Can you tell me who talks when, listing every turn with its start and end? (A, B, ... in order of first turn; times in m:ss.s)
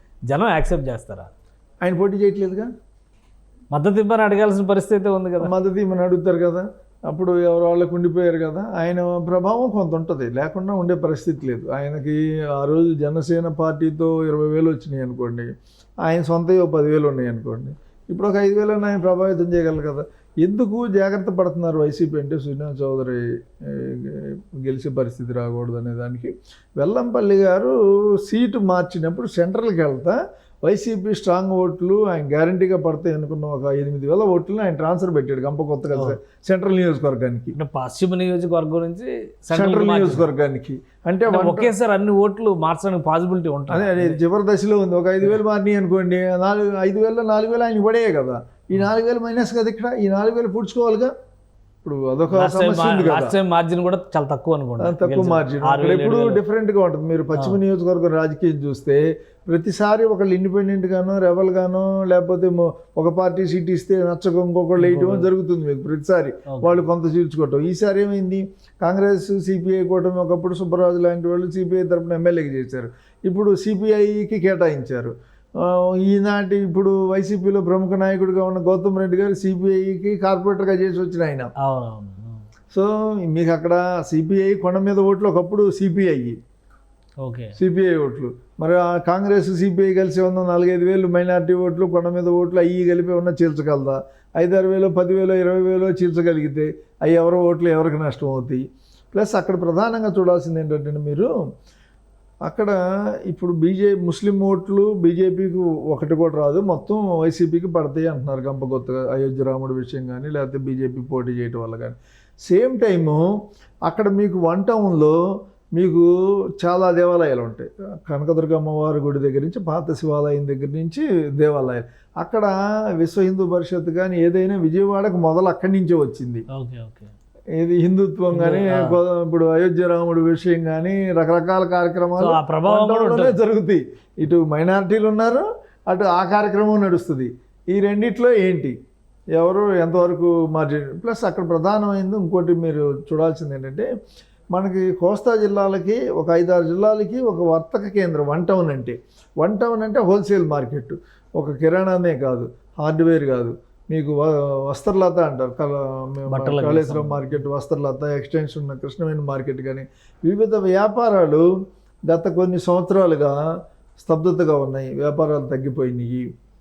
0:00.3-0:01.3 A
0:01.8-0:02.7 B
0:03.7-0:05.5 A
0:05.4-0:15.5 B
0:16.0-0:37.6 B
0:37.5-0:40.3 A
0:39.5-0:41.7 B
0:41.2-0:44.2 A
0:43.7-0:51.1 B
0:51.8-0:53.4 B
0:52.3-0:56.4 A
0:54.8-1:21.5 B
1:04.8-1:05.3 A
1:06.5-1:06.8 A
1:21.6-1:22.4 A
1:22.7-1:26.4 B
1:27.2-1:27.5 A
1:27.6-1:41.3 B
1:42.4-1:53.2 B
1:53.8-1:55.2 B
1:55.8-1:56.1 B
1:56.6-2:06.4 B
2:06.5-2:07.1 A
2:07.6-2:18.7 B
2:08.3-2:09.0 A
2:12.2-2:13.4 A
2:19.3-2:23.9 B
2:24.5-2:41.4 B
2:36.3-2:37.4 A
2:42.1-2:43.3 B
2:44.0-2:46.3 B